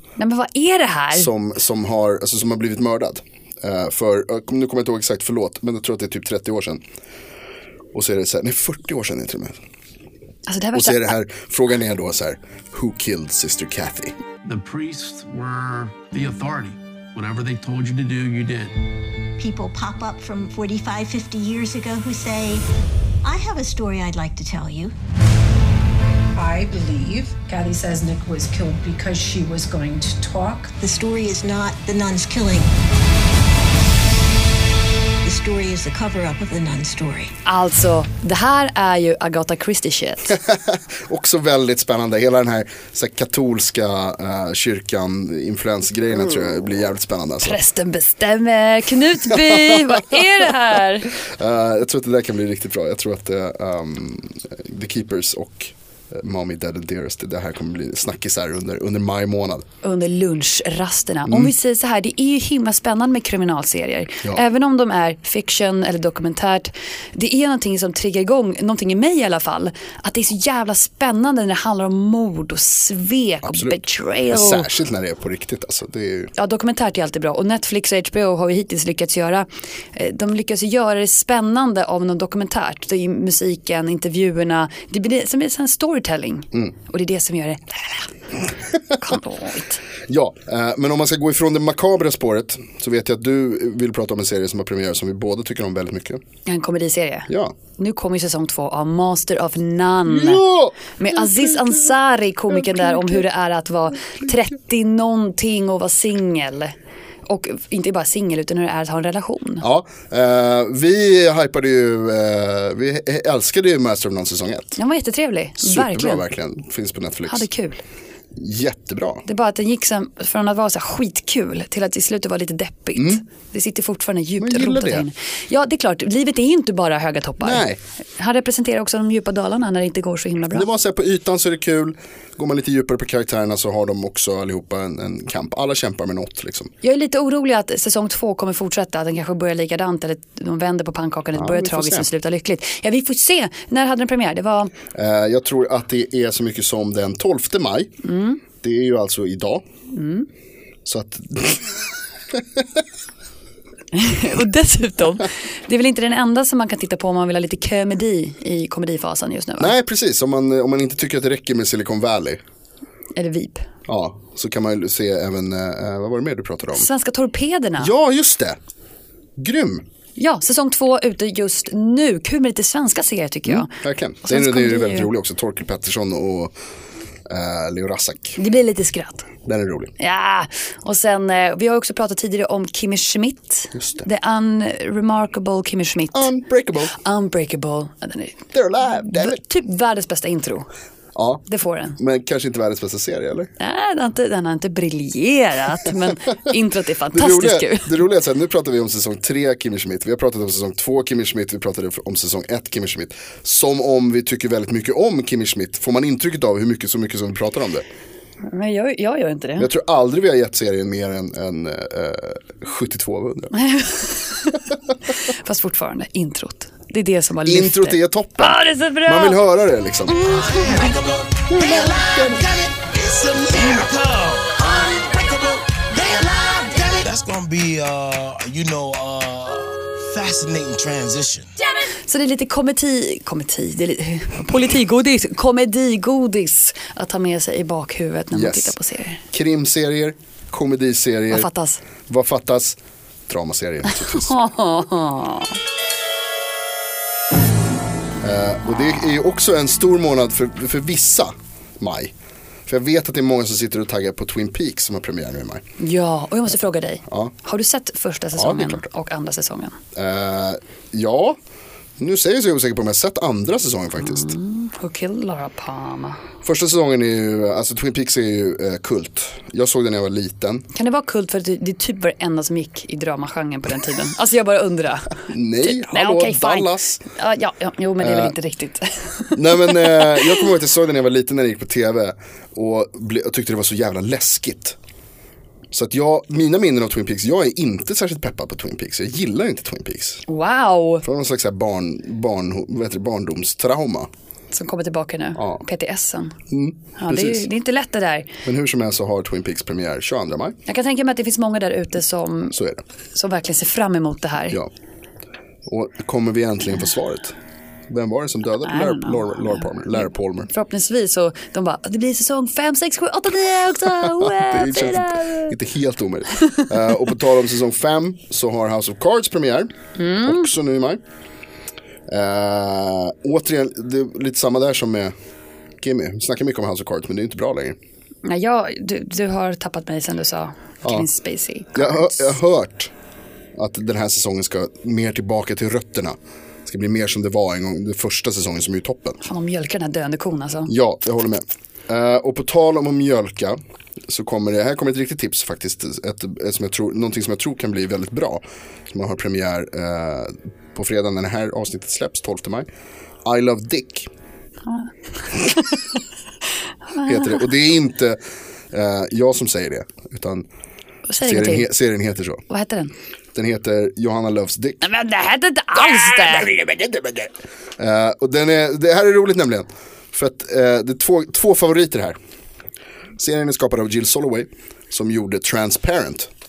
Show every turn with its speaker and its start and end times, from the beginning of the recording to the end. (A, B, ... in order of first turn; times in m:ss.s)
0:00.2-0:01.3 A
0:01.1-0:06.8 B
0:07.9-0:09.6 B
0:10.5-0:11.1 A
0:10.7-0:14.1 B
0:14.4-0:18.7 C
0:19.4-0:22.6 D
0:23.2-0:24.9 D
0:26.4-0:30.7 E
0:30.8-0:32.7 D
0:35.2-0:37.3 D
0:37.4-0:40.4 A
0:40.3-0:47.6 B
0:47.4-0:51.1 A
0:49.2-0:50.1 B
0:51.2-0:59.6 B
0:59.8-1:14.7 A
1:01.3-1:01.5 B
1:13.4-1:16.3 B
1:16.4-1:28.1 A
1:28.9-1:29.8 A
1:30.1-1:36.2 B
1:36.4-1:46.8 A
1:37.3-1:37.5 B
1:40.1-1:41.9 B
1:42.5-1:43.2 B
1:47.3-1:49.6 A
1:49.6-1:54.8 B
1:54.8-1:56.2 A
1:55.6-1:57.5 B
1:57.3-1:57.8 A
1:58.4-1:59.2 B
1:59.2-2:07.6 A
2:03.0-2:03.2 B
2:04.4-2:05.1 B
2:07.4-2:07.8 B
2:08.2-2:10.7 A
2:10.5-2:16.7 B
2:16.8-2:24.7 A
2:21.3-2:22.1 B
2:24.9-2:27.9 B
2:28.0-2:28.4 A
2:28.6-2:29.6 B
2:29.9-2:30.3 A
2:30.8-2:32.8 B
2:33.9-2:39.7 A
2:39.6-2:42.4 B
2:43.1-2:43.6 A
2:43.9-2:46.9 B
2:46.7-2:47.9 A
2:47.8-2:48.6 B
2:49.4-2:49.8 B
2:50.2-2:53.7 A
2:53.4-2:56.5 B
2:54.2-2:55.1 A
2:57.2-2:58.4 B
2:58.4-2:59.3 A
2:59.4-2:59.9 B
3:00.0-3:06.3 A
3:03.7-3:04.1 B
3:06.1-3:06.9 B
3:06.9-3:10.7 A
3:08.5-3:09.4 B
3:11.2-3:11.4 B
3:11.5-3:12.0 A
3:12.0-3:13.5 B
3:13.6-3:18.0 A
3:17.1-3:27.8 B
3:28.5-3:29.7 A
3:29.6-3:33.5 B
3:33.5-3:34.6 A
3:35.4-3:39.4 A
3:37.4-3:40.2 B
3:40.2-3:51.5 C
3:41.5-3:42.4 B
3:52.1-3:59.2 A
3:58.3-3:58.8 B
3:59.3-4:01.5 B
4:01.3-4:01.8 A
4:02.1-4:04.3 B
4:03.9-4:05.5 A
4:08.2-4:12.1 B
4:12.7-4:15.6 B
4:15.8-4:19.8 A
4:17.1-4:17.3 B
4:18.3-4:18.8 B
4:19.9-4:21.4 B
4:22.0-4:24.3 B
4:24.0-4:26.2 A
4:26.4-4:30.7 B
4:30.7-4:40.4 A
4:35.3-4:37.0 B
4:38.0-4:38.3 B
4:39.3-4:44.8 B
4:45.7-4:50.2 B
4:50.3-4:51.0 A
4:51.0-4:54.1 B
4:54.5-4:56.4 A
4:55.4-4:55.6 B
4:56.5-4:57.5 B
4:57.0-4:58.3 A
4:58.4-5:00.6 B
5:00.6-5:02.5 A
5:02.5-5:02.8 B
5:03.1-5:04.6 A
5:05.6-5:07.4 B
5:07.9-5:10.5 B
5:08.6-5:09.7 A
5:10.5-5:15.5 A
5:14.1-5:21.0 B
5:20.0-5:20.5 A
5:22.1-5:25.1 B
5:25.8-5:27.8 B
5:28.2-5:32.3 A
5:31.7-5:32.9 B
5:33.5-5:39.2 B
5:39.2-5:40.7 A
5:40.7-5:52.7 B
5:53.2-5:54.1 B
5:54.7-5:55.8 A
5:56.9-5:57.3 A
5:57.0-5:58.2 B
5:58.7-6:00.5 B
6:01.1-6:01.7 A
6:01.2-6:02.4 B
6:02.5-6:02.9 A
6:03.3-6:04.8 B
6:04.8-6:06.6 A
6:06.4-6:12.2 B
6:13.2-6:16.3 B